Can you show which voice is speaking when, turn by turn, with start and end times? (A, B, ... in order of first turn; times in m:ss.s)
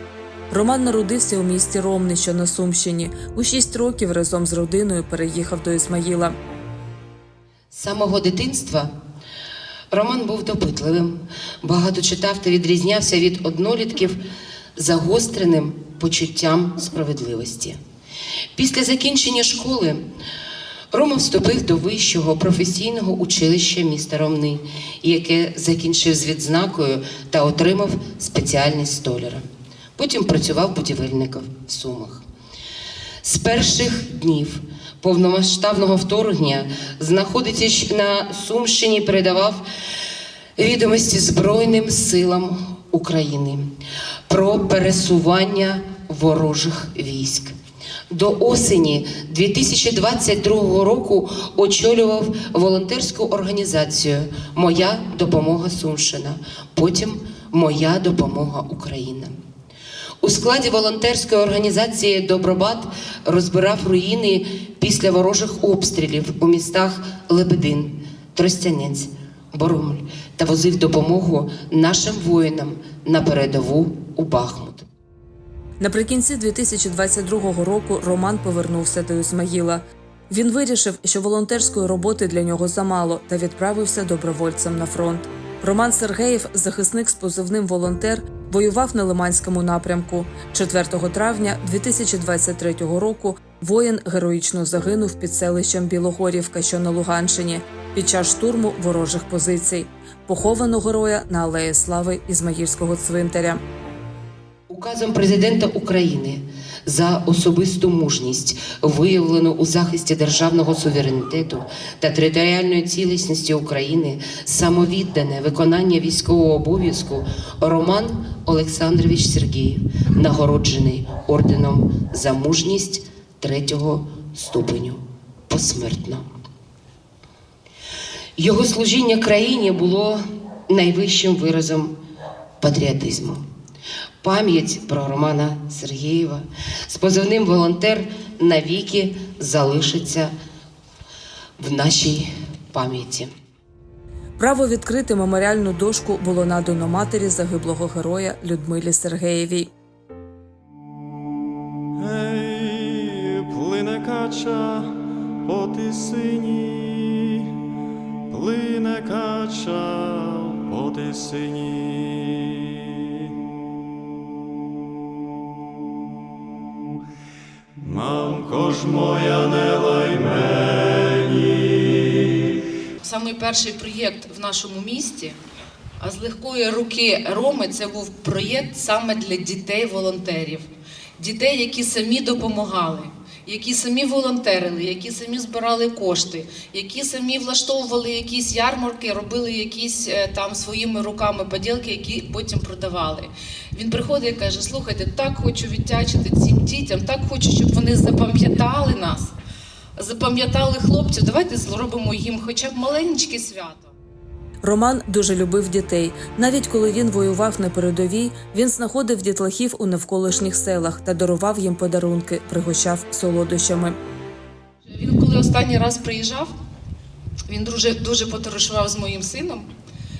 0:00.5-0:06.4 A
0:07.7-0:08.9 B
0:09.9-0:14.2 B
0:14.8-0:17.8 B
0:18.6-0:20.0 B
0:20.9-0:29.4 B
0:30.0-0:32.2 B
0:33.2-0:39.6 B
0:40.6-0:43.7 B
0:44.3-0:47.5 B
0:48.1-0:59.4 B
1:00.2-1:14.9 B
1:15.8-1:43.6 A
1:44.7-2:06.3 B
2:08.4-2:12.0 B
2:12.6-2:13.4 B
2:14.2-2:20.3 B
2:21.6-2:23.3 B
2:24.4-2:29.7 A
2:32.0-2:37.5 C
2:38.3-2:42.9 C
2:47.8-2:52.5 C
2:53.0-2:55.4 D
2:56.0-3:19.3 D
3:20.0-3:23.9 D
3:24.6-3:34.0 A
3:34.9-3:36.5 D
3:37.5-3:39.7 D